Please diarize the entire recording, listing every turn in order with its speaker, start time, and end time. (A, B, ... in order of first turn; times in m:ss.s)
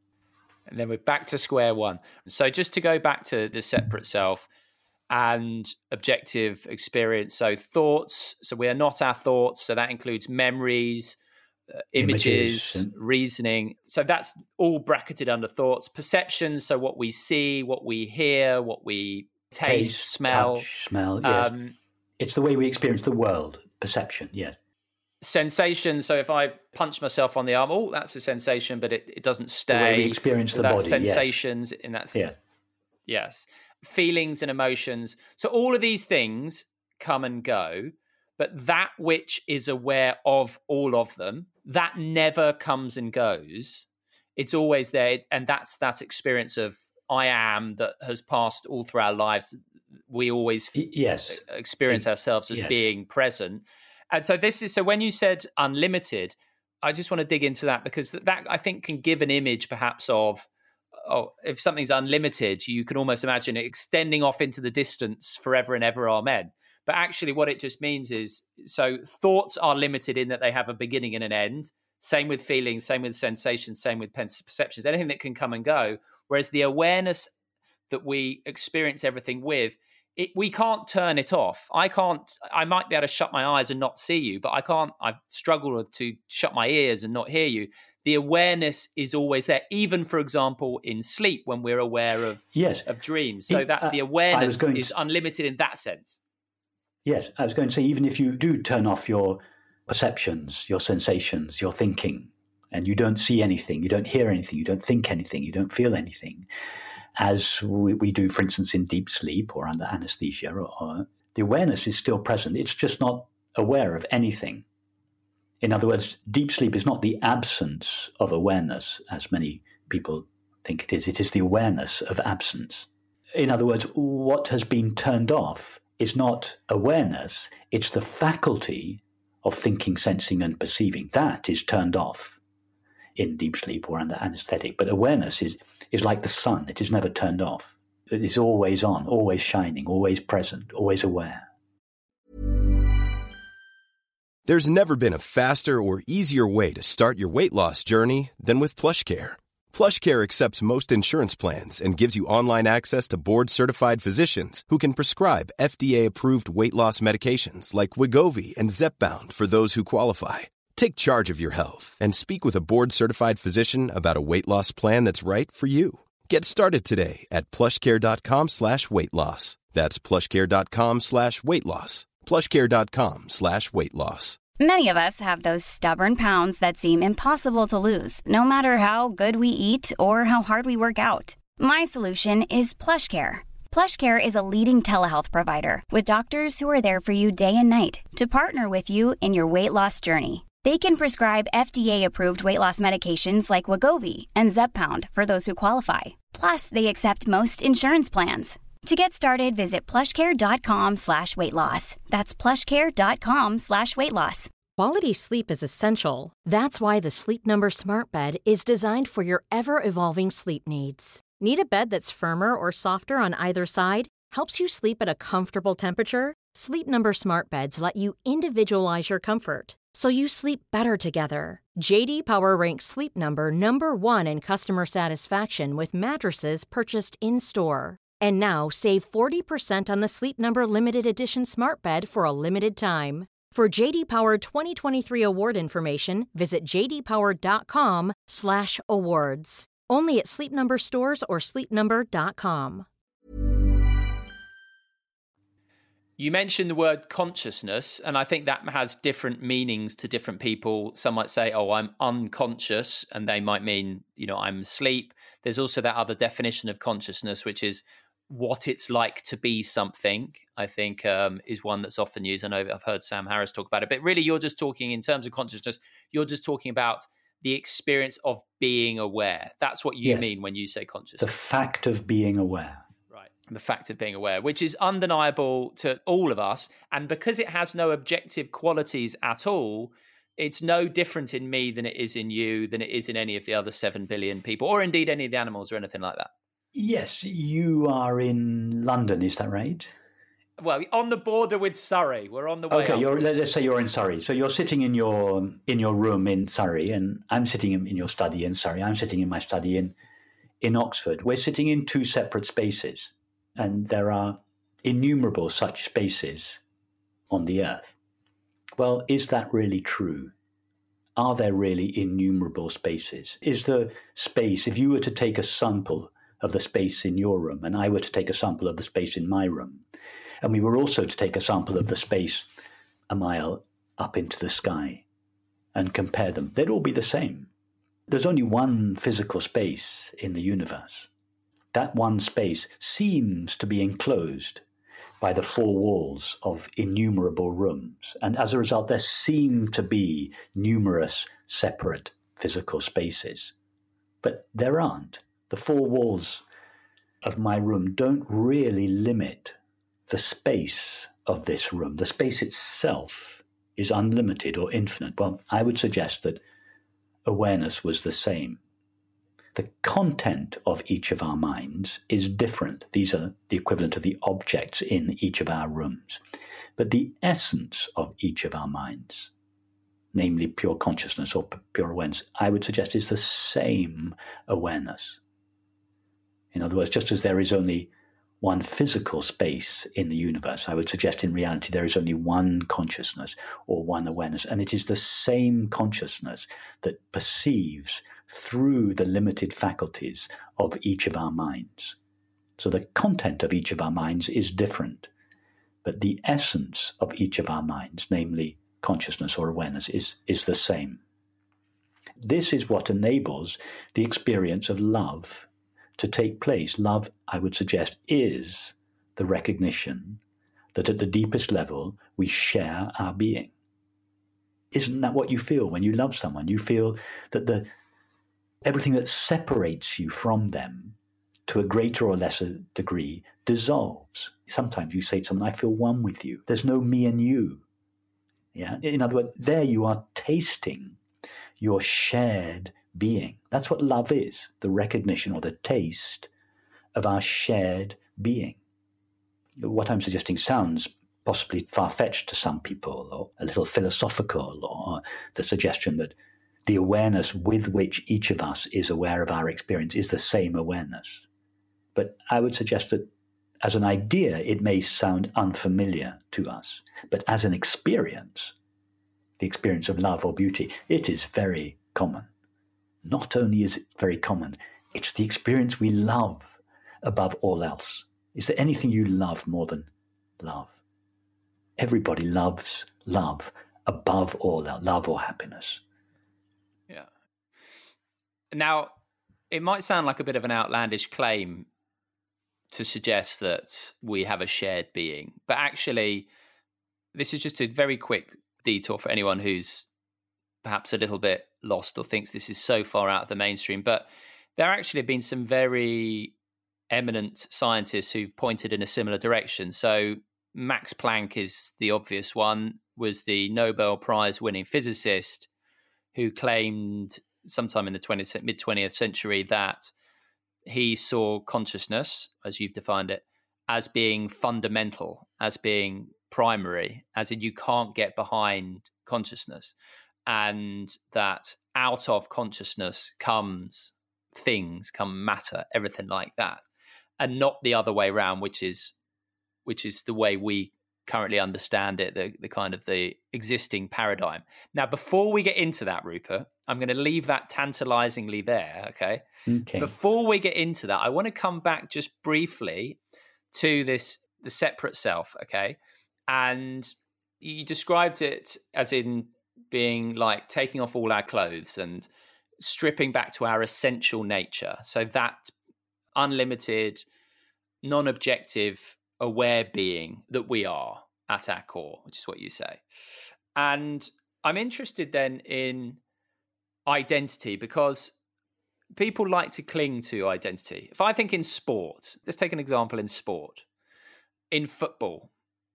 0:00.7-0:04.5 A
0:05.1-0:11.2 A
0:11.9-0:20.6 A
0:12.0-0:12.9 B
0:19.6-0:21.5 B
0:21.2-0:21.7 A
0:22.2-0:24.6 B
0:25.2-0:32.2 A
0:29.7-0:31.4 B
0:33.1-0:43.8 A
0:44.4-1:00.5 A
0:50.7-0:52.8 B
1:01.0-1:17.3 A
1:17.9-1:36.2 A
1:32.5-1:32.9 B
1:33.5-1:34.9 B
1:37.0-1:46.5 B
1:47.2-1:54.6 B
1:55.6-2:12.4 B
2:13.2-2:21.5 B
2:24.4-2:54.4 C
2:54.6-3:24.5 D
3:24.8-4:02.9 E
4:06.2-4:31.3 A
4:30.0-4:30.3 B
4:31.2-4:32.9 B
4:33.1-4:46.3 A
4:46.7-4:49.9 B
4:50.6-4:53.2 A
4:52.7-4:59.9 B
5:00.6-5:06.6 B
5:07.3-5:07.9 B
5:08.8-5:10.3 B
5:11.2-5:19.8 B
5:20.4-5:22.5 B
5:23.1-5:25.0 B
5:25.7-5:27.5 B
5:28.1-5:31.1 B
5:31.7-5:34.6 B
5:35.2-5:43.5 B
5:44.2-5:46.4 B
5:47.2-5:49.6 B
5:50.1-5:56.4 B
5:57.2-5:58.6 B
5:59.5-6:06.2 B
6:06.8-6:09.3 B
6:10.1-6:15.2 B
6:16.5-6:17.9 B
6:18.4-6:32.0 B
6:32.6-6:35.1 B
6:35.8-6:41.0 B
6:42.2-6:50.2 B
6:50.7-6:53.5 B
6:54.7-6:57.7 B
6:58.6-7:01.0 B
7:01.5-7:07.6 B
7:08.5-7:11.0 B
7:11.6-7:16.3 B
7:16.9-7:18.6 B
7:19.6-7:26.1 B
7:26.6-7:31.2 B
7:31.9-7:33.1 B
7:33.6-7:38.5 B
7:39.4-7:42.3 B
7:43.0-7:50.8 B
7:51.8-7:55.8 B
7:58.5-7:58.9 A
7:59.5-8:01.7 A
8:02.7-8:06.3 A
8:07.1-8:09.9 A
8:10.6-8:16.3 A
8:16.9-8:25.5 A
8:26.1-8:29.9 A
8:30.6-8:39.7 A
8:40.3-8:46.6 A
8:47.2-8:48.9 A
8:49.6-8:59.2 A
8:59.5-8:59.9 B
8:59.8-9:03.0 A
9:03.5-9:05.8 A
9:06.3-9:12.1 A
9:12.6-9:15.5 A
9:16.2-9:17.0 A
9:17.8-9:22.8 A
9:23.5-9:26.0 A
9:26.9-9:28.1 A
9:28.9-9:33.6 A
9:34.5-9:35.3 A